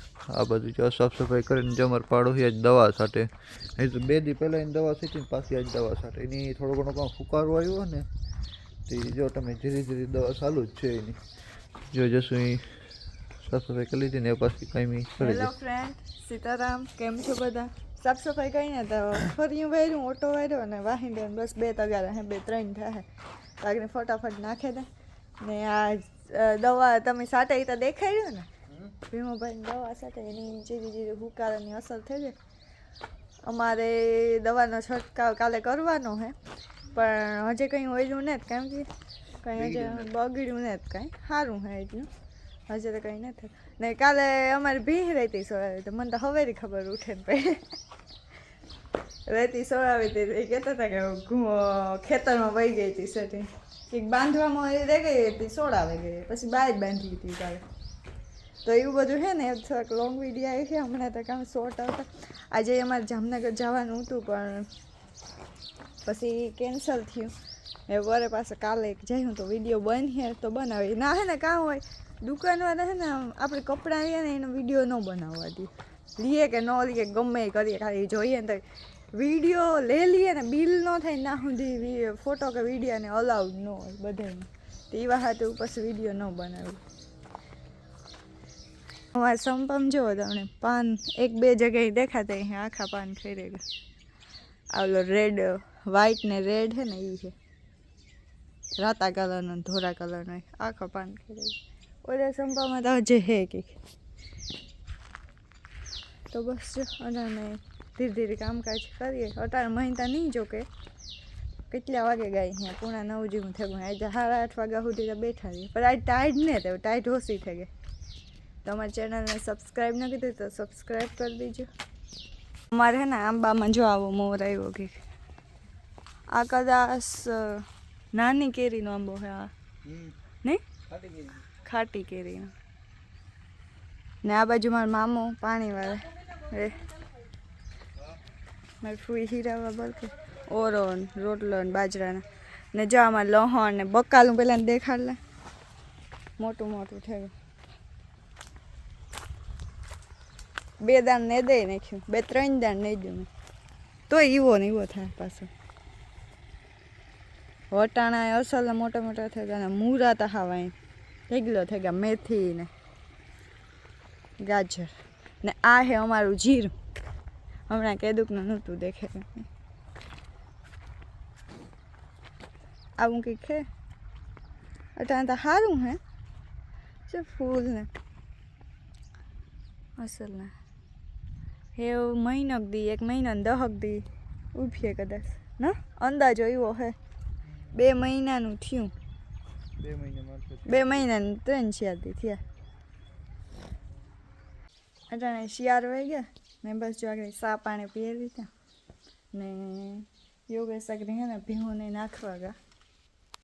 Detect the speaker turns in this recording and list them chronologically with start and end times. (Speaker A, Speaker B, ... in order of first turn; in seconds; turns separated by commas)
Speaker A: 0.3-8.1, Speaker A: 8.9-11.2, Speaker A: 11.9-12.7, Speaker A: 13.4-15.5, Speaker B: 15.2-23.1, Speaker B: 23.6-24.9, Speaker B: 25.4-28.5, Speaker B: 29.1-32.4, Speaker B: 33.4-36.4, Speaker B: 36.9-38.9, Speaker B: 39.4-42.1, Speaker A: 39.5-40.1, Speaker B: 42.7-47.7, Speaker B: 49.3-57.6, Speaker B: 58.6-64.7, Speaker B: 66.0-67.3, Speaker B: 67.9-86.8, Speaker B: 89.2-93.6, Speaker B: 94.7-97.3, Speaker B: 98.8-103.8, Speaker B: 106.3-110.7, Speaker B: 111.7-117.7, Speaker B: 118.7-121.7, Speaker B: 122.7-125.0, Speaker B: 126.3-129.5, Speaker A: 129.9-130.1, Speaker A: 130.9-131.4, Speaker B: 131.7-132.5, Speaker B: 134.2-136.8, Speaker B: 138.8-145.2, Speaker B: 146.4-147.3, Speaker B: 150.8-153.3, Speaker B: 154.1-155.5, Speaker B: 157.7-160.7, Speaker B: 161.3-162.7, Speaker B: 164.4-164.9, Speaker B: 165.4-166.7, Speaker B: 167.7-169.5, Speaker B: 173.0-173.6, Speaker B: 175.0-176.0, Speaker B: 177.1-177.9, Speaker B: 180.0-180.5, Speaker B: 181.8-187.0, Speaker B: 187.7-188.9, Speaker A: 189.8-191.1, Speaker B: 190.7-192.4, Speaker B: 195.1-198.5, Speaker B: 199.3-202.6